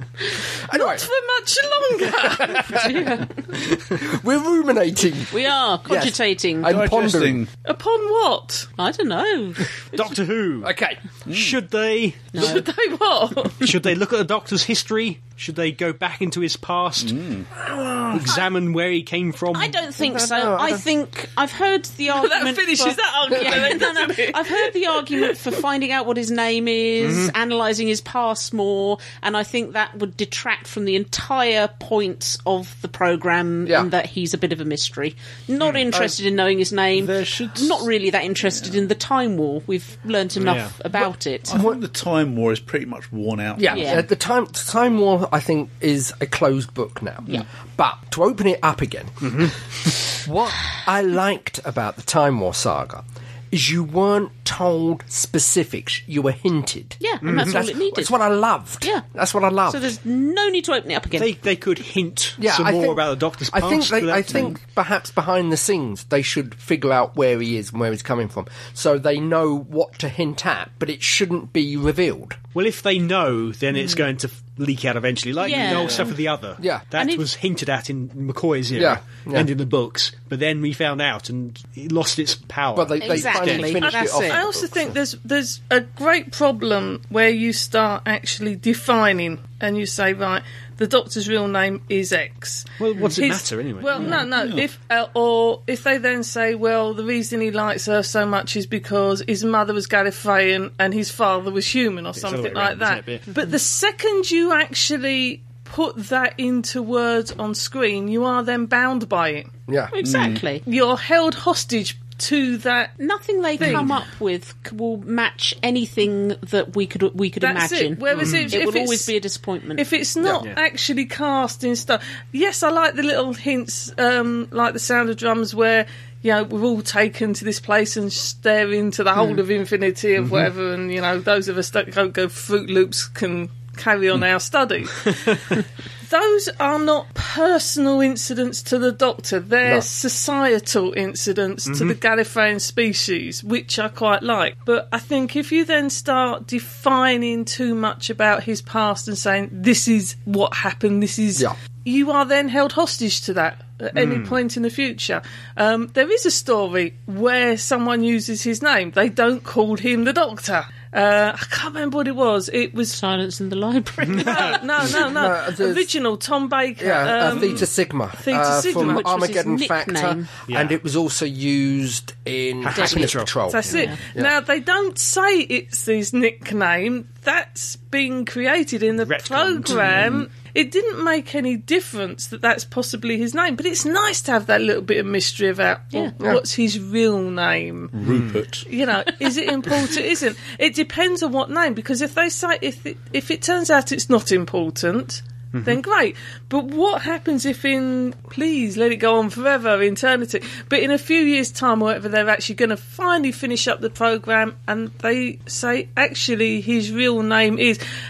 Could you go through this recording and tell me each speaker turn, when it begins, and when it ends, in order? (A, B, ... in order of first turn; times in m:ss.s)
0:00.4-0:01.1 A
0:00.7-0:02.9 B
0:02.2-0:02.9 A
0:02.7-0:03.3 C
0:03.5-0:07.4 A
0:05.3-0:06.8 C
0:06.6-0:07.5 D
0:07.6-0:08.7 B
0:08.8-0:10.1 C
0:09.9-0:10.7 E
0:10.6-0:11.0 A
0:11.3-0:11.6 D
0:11.3-0:12.7 E
0:12.3-0:12.6 C
0:12.3-0:13.7 B
0:13.6-0:17.2 E
0:17.0-0:17.5 D
0:17.6-0:18.4 A
0:18.1-0:19.8 E
0:19.5-0:41.6 C
0:20.0-0:20.8 A
0:22.1-0:25.3 B
0:27.0-0:27.3 E
0:36.9-0:37.8 D
0:40.4-0:40.7 E
0:41.5-0:43.9 D
0:41.5-0:41.8 A
0:43.6-0:43.8 B
0:43.6-0:49.5 A
0:43.7-0:44.0 C
0:49.2-0:49.5 E
0:50.1-0:59.9 A
0:57.0-0:58.1 C
0:57.2-0:57.6 E
0:59.7-1:01.3 C
1:01.2-1:04.5 E
1:02.4-1:12.4 A
1:12.5-1:23.8 E
1:15.4-1:16.1 C
1:16.6-1:16.9 A
1:17.0-1:17.2 C
1:18.7-1:19.5 A
1:22.7-1:25.0 A
1:23.0-1:24.4 C
1:23.8-1:49.5 B
1:32.8-1:34.3 E
1:34.0-1:34.6 D
1:42.2-1:43.3 E
1:49.7-1:49.9 A
1:49.9-1:50.6 C
1:50.0-1:50.4 D
1:50.6-1:53.0 B
1:53.0-1:59.8 C
1:53.6-1:53.9 B
1:57.4-1:59.1 B
1:59.8-2:43.0 B
2:00.3-2:00.6 E
2:10.2-2:10.5 E
2:21.6-2:22.0 E
2:33.9-2:34.4 E
2:42.9-2:44.9 C
2:44.1-2:44.5 E
2:44.2-2:47.7 B
2:44.9-2:45.9 A
2:46.8-2:54.3 A
2:48.2-2:49.1 B
2:48.7-2:50.3 C
2:50.5-2:50.8 E
2:52.6-2:53.8 E
2:52.7-2:53.2 C
2:53.5-3:07.9 B
2:53.7-2:54.0 C
2:59.0-3:00.2 E
3:07.9-3:08.6 D
3:08.0-3:08.4 E
3:08.7-3:27.8 B
3:15.5-3:15.8 E